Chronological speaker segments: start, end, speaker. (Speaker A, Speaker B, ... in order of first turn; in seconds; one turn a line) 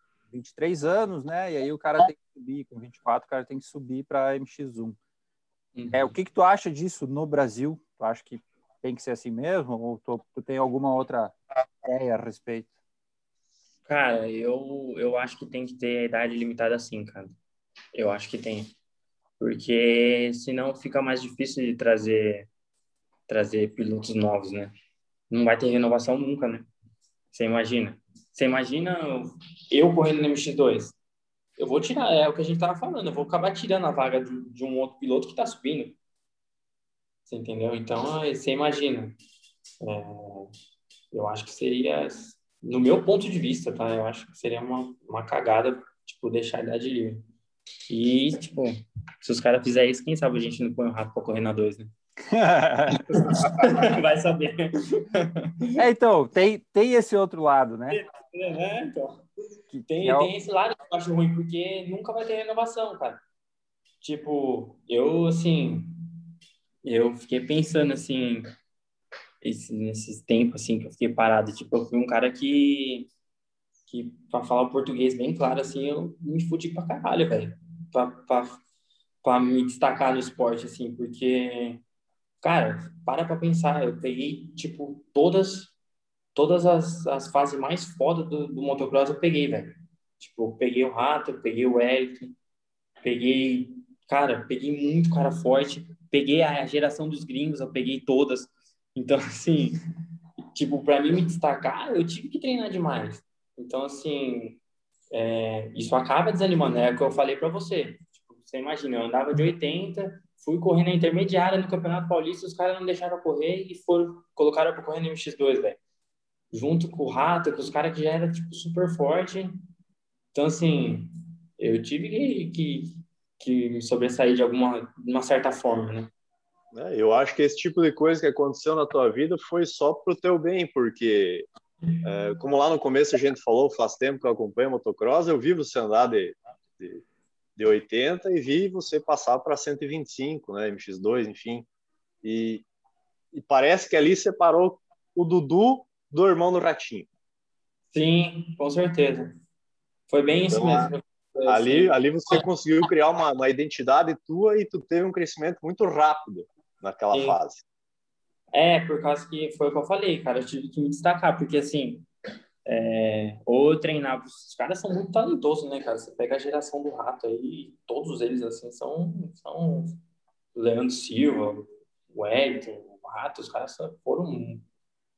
Speaker A: 0.3-5.0
Speaker B: 5.7-6.1
Speaker A: 5.9-12.7
Speaker B: 13.8-17.4
Speaker B: 17.9-18.7
Speaker B: 19.4-22.5
Speaker B: 23.3-24.7
Speaker B: 25.3-26.7
Speaker B: 27.3-30.9
Speaker B: 31.6-36.0
Speaker B: 37.3-39.1
Speaker B: 39.8-40.5
Speaker B: 41.1-47.2
Speaker B: 47.9-51.9
Speaker A: 52.3-53.5
Speaker B: 53.1-55.7
Speaker A: 55.8-58.0
Speaker B: 57.9-63.2
Speaker A: 59.9-60.3
Speaker B: 64.0-66.0
Speaker B: 66.8-68.4
Speaker B: 69.4-73.1
Speaker B: 73.9-78.6
Speaker B: 79.2-81.8
Speaker B: 82.4-85.7
Speaker B: 86.3-92.3
Speaker B: 93.0-99.8
Speaker B: 100.5-104.6
Speaker B: 105.1-115.8
Speaker B: 116.5-119.5
Speaker B: 120.3-126.1
Speaker C: 126.7-131.5
Speaker C: 132.0-137.0
Speaker C: 137.6-141.7
Speaker C: 142.2-142.6
Speaker C: 143.3-147.1
Speaker B: 147.9-149.3
Speaker B: 150.1-152.4
Speaker C: 150.5-150.9
Speaker C: 151.4-157.6
Speaker B: 157.1-157.4
Speaker B: 158.5-162.1
Speaker B: 162.6-170.0
Speaker B: 170.5-174.6